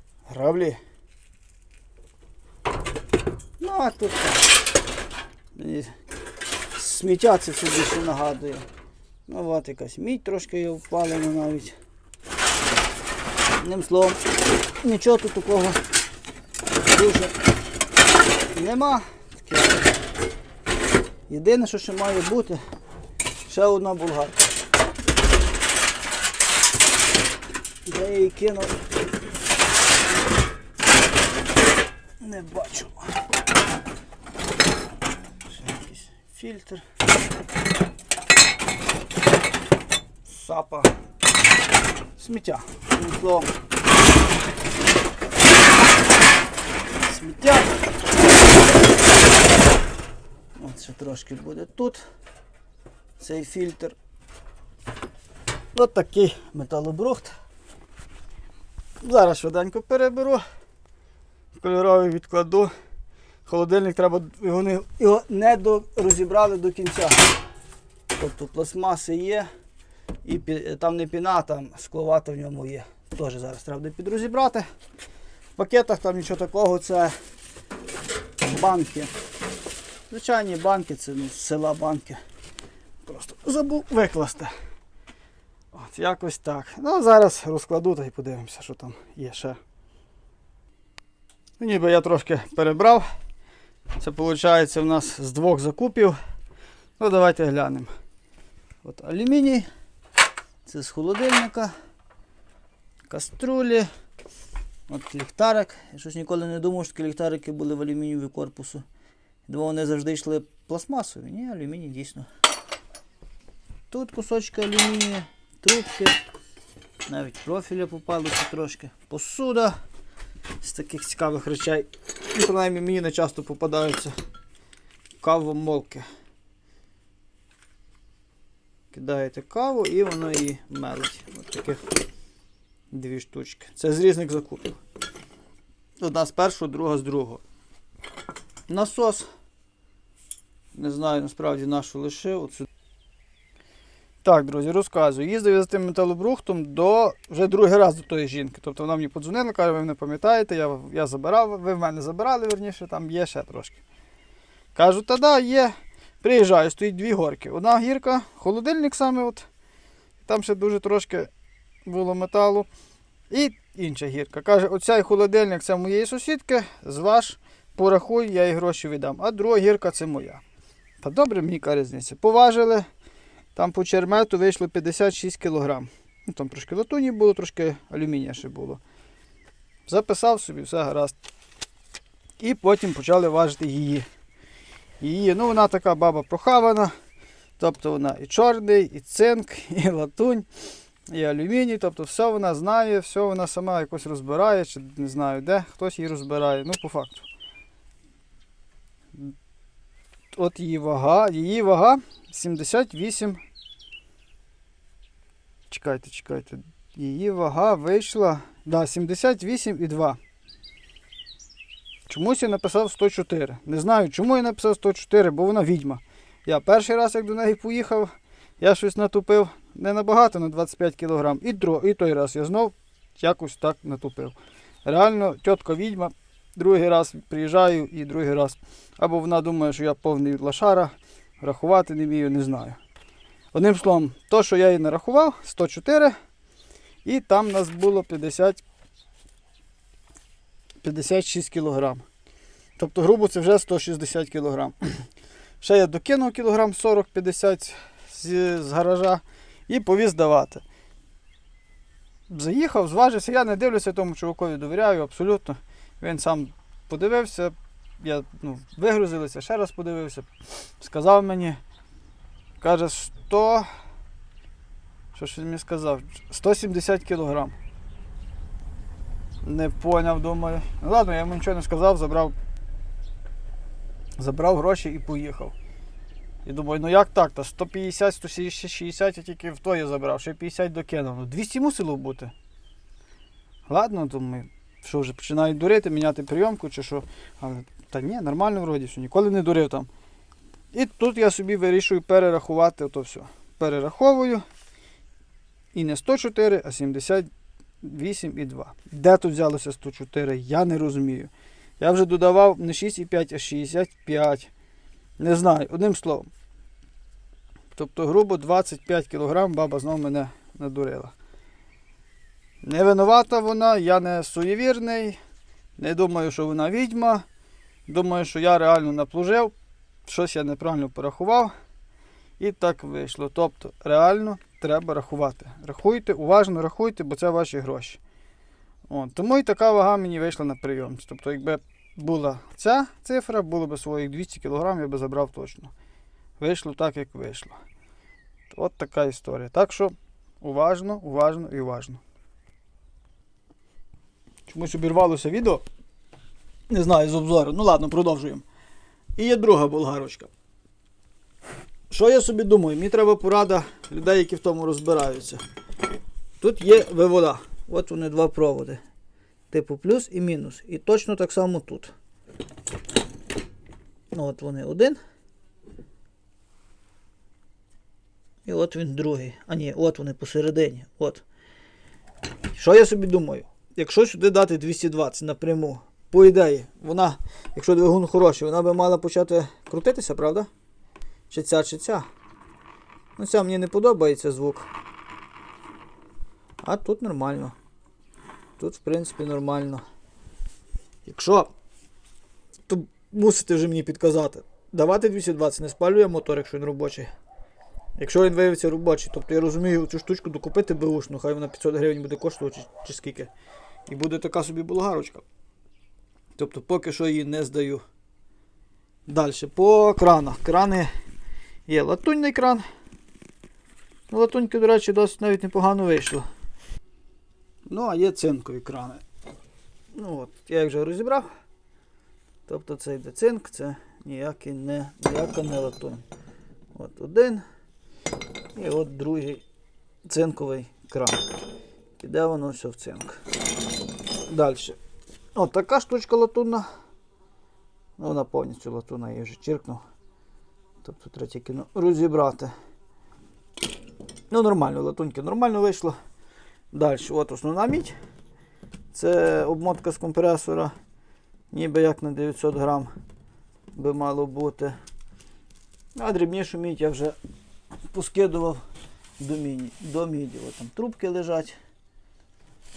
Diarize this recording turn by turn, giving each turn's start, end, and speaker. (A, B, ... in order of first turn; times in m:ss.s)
0:00.3-0:00.8 A
0:03.6-0:04.5 A
0:05.6-0:05.9 A
0:06.8-0:08.7 A
0:09.3-0:11.8 A
0:13.6-0:14.2 A
0:14.8-0:15.8 A
0:16.8-0:17.4 A
0:18.5-0:19.9 A
0:21.3-0:22.6 A
0:23.4-0:24.5 A
0:27.9-0:28.8 A
0:32.2-0:33.1 A
0:35.4-0:36.8 A
0:40.2-0:40.9 A
0:42.2-0:43.5 A
0:47.0-0:47.8 A
0:50.6-0:52.0 A
0:53.2-0:54.0 A
0:55.7-0:57.3 A
0:59.0-1:00.4 A
1:01.6-1:02.7 A
1:03.5-1:07.2 A
1:08.2-1:09.5 A
1:10.2-1:14.6 A
1:15.6-1:17.1 A
1:18.5-1:19.1 A
1:20.1-1:22.2 A
1:23.0-1:24.5 A
1:25.7-1:29.6 A
1:31.6-1:33.0 A
1:34.0-1:36.2 A
1:37.0-1:37.9 A
1:38.8-1:39.7 A
1:40.6-1:41.7 A
1:43.1-1:43.9 A
1:44.9-1:48.8 A
1:49.5-1:52.3 A
1:53.9-1:56.2 A
1:57.1-1:59.8 A
2:00.6-2:04.1 A
2:05.2-2:06.0 A
2:08.9-2:11.8 A
2:12.9-2:14.8 A
2:16.0-2:17.4 A
2:18.7-2:19.2 A
2:20.8-2:22.7 A
2:24.2-2:33.8 A
2:34.8-2:39.5 A
2:40.2-2:41.3 A
2:41.9-2:42.7 A
2:43.3-2:50.4 A
2:51.0-2:52.9 A
2:53.5-2:58.8 A
2:59.9-3:01.1 A
3:02.4-3:04.0 A
3:05.0-3:06.9 A
3:07.6-3:10.5 A
3:11.1-3:17.3 A
3:20.3-3:23.4 A
3:25.7-3:30.2 A
3:32.1-3:52.8 A
3:53.5-3:56.1 A
3:57.0-3:58.6 A
4:00.8-4:02.0 A
4:02.8-4:04.8 A
4:05.6-4:10.6 A
4:12.3-4:20.3 A
4:20.8-4:21.6 A
4:22.6-4:23.7 A
4:25.1-4:27.5 A
4:29.4-4:32.3 A
4:34.2-4:35.5 A
4:36.4-4:42.3 A
4:43.7-4:49.9 A
4:50.7-4:54.4 A
4:55.7-4:57.3 A
4:57.8-5:04.5 A
5:05.2-5:06.3 A
5:07.7-5:11.1 A
5:12.6-5:15.2 A
5:15.8-5:17.2 A
5:17.9-5:19.5 A
5:20.0-5:21.5 A
5:22.4-5:28.0 A
5:28.9-5:35.7 A
5:36.4-5:37.6 A
5:38.5-5:42.0 A
5:44.5-5:45.6 A
5:46.7-5:48.4 A
5:49.2-5:50.3 A
5:51.9-5:55.4 A
5:56.4-5:58.8 A
5:59.5-6:01.9 A
6:04.1-6:05.0 A
6:08.5-6:11.2 A
6:12.5-6:20.5 A
6:21.3-6:22.0 A
6:23.2-6:24.7 A
6:26.6-6:27.5 A
6:28.6-6:29.8 A
6:31.0-6:31.5 A
6:32.7-6:37.1 A
6:38.0-6:43.3 A
6:43.9-6:45.2 A
6:46.4-6:47.8 A
6:49.1-6:50.9 A
6:51.7-6:52.6 A
6:54.1-6:56.2 A
6:57.7-6:59.0 A
6:59.9-7:01.3 A
7:02.5-7:06.0 A
7:06.7-7:07.4 A
7:08.5-7:09.4 A
7:10.0-7:11.2 A
7:12.0-7:13.2 A
7:14.3-7:14.8 A
7:15.4-7:16.6 A
7:18.0-7:19.8 A
7:20.8-7:22.5 A
7:24.3-7:26.0 A
7:26.7-7:27.9 A
7:28.9-7:30.7 A
7:31.5-7:32.9 A
7:33.8-7:34.8 A
7:36.0-7:37.2 A
7:37.9-7:38.6 A
7:39.2-7:41.5 A